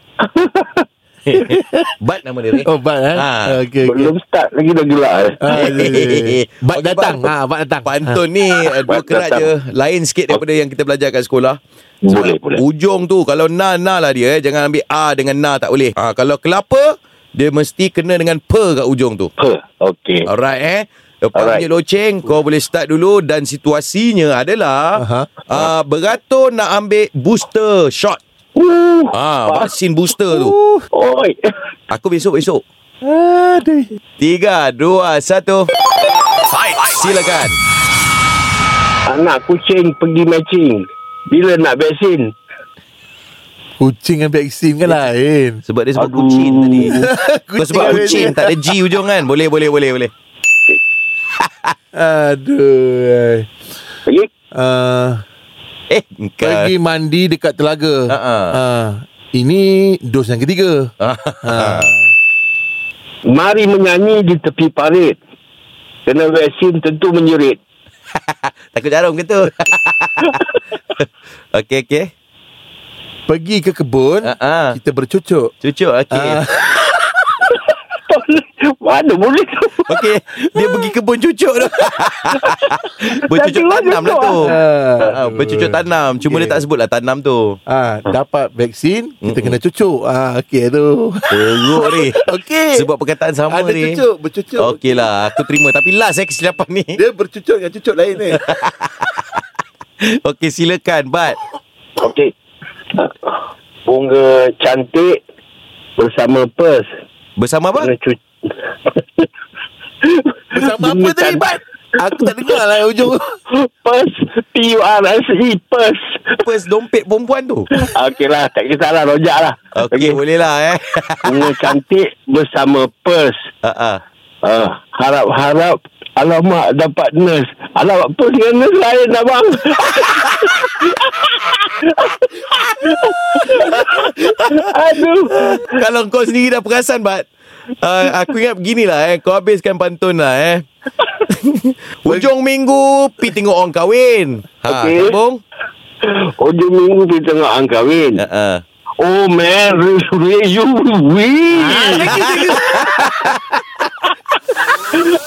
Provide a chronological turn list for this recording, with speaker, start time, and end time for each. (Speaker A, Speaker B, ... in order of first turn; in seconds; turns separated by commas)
Speaker A: 0.2-0.8, Speaker B: 1.3-3.6, Speaker C: 1.4-1.9, Speaker C: 2.6-4.1, Speaker A: 3.9-5.8, Speaker C: 5.4-8.2, Speaker B: 5.5-7.3, Speaker B: 7.9-19.3, Speaker A: 8.7-9.5, Speaker A: 12.0-12.6, Speaker A: 19.4-20.3, Speaker B: 20.3-28.2, Speaker A: 21.4-21.7, Speaker C: 25.0-25.5, Speaker A: 28.6-29.7, Speaker B: 29.1-30.6, Speaker C: 30.3-30.9, Speaker A: 30.9-31.4, Speaker B: 31.9-32.6, Speaker C: 33.0-33.9, Speaker B: 34.2-35.7, Speaker B: 36.6-37.6, Speaker A: 39.1-42.3, Speaker C: 43.8-45.6, Speaker B: 45.6-50.1, Speaker A: 46.0-47.0, Speaker C: 46.9-48.6, Speaker A: 47.8-48.4, Speaker B: 51.5-51.8, Speaker C: 51.9-53.5, Speaker C: 54.5-55.2, Speaker B: 55.9-56.7, Speaker C: 56.4-60.9, Speaker B: 58.1-58.6, Speaker B: 61.0-61.9, Speaker C: 61.4-62.1, Speaker A: 63.3-65.2, Speaker A: 66.1-67.6, Speaker B: 68.3-70.4, Speaker B: 71.0-72.1, Speaker C: 73.3-75.5, Speaker B: 74.2-74.8, Speaker B: 75.6-76.4, Speaker C: 76.1-76.9, Speaker A: 78.1-80.0, Speaker B: 79.9-84.5, Speaker A: 82.3-85.1, Speaker C: 84.4-86.6, Speaker B: 85.0-87.6, Speaker C: 87.7-92.9, Speaker B: 89.2-89.6, Speaker B: 91.3-92.2, Speaker B: 92.7-94.0, Speaker C: 93.5-95.1, Speaker B: 94.6-97.0, Speaker C: 97.0-98.4, Speaker B: 98.3-99.2, Speaker B: 100.0-101.4, Speaker A: 102.0-102.3, Speaker A: 103.0-105.2, Speaker A: 106.0-106.9, Speaker B: 107.4-107.9, Speaker A: 107.8-108.2, Speaker A: 110.2-111.6, Speaker C: 110.5-113.4, Speaker A: 113.5-116.4, Speaker B: 116.4-117.7, Speaker A: 117.7-120.2, Speaker B: 119.8-121.5, Speaker A: 121.3-123.4, Speaker B: 123.6-124.0, Speaker A: 124.4-135.7, Speaker B: 133.6-134.6, Speaker B: 135.3-137.3, Speaker B: 137.8-140.7, Speaker B: 141.3-145.4, Speaker A: 144.7-145.2, Speaker A: 146.0-148.2, Speaker B: 148.2-148.6, Speaker A: 149.0-152.8, Speaker C: 151.6-153.0, Speaker B: 151.7-153.3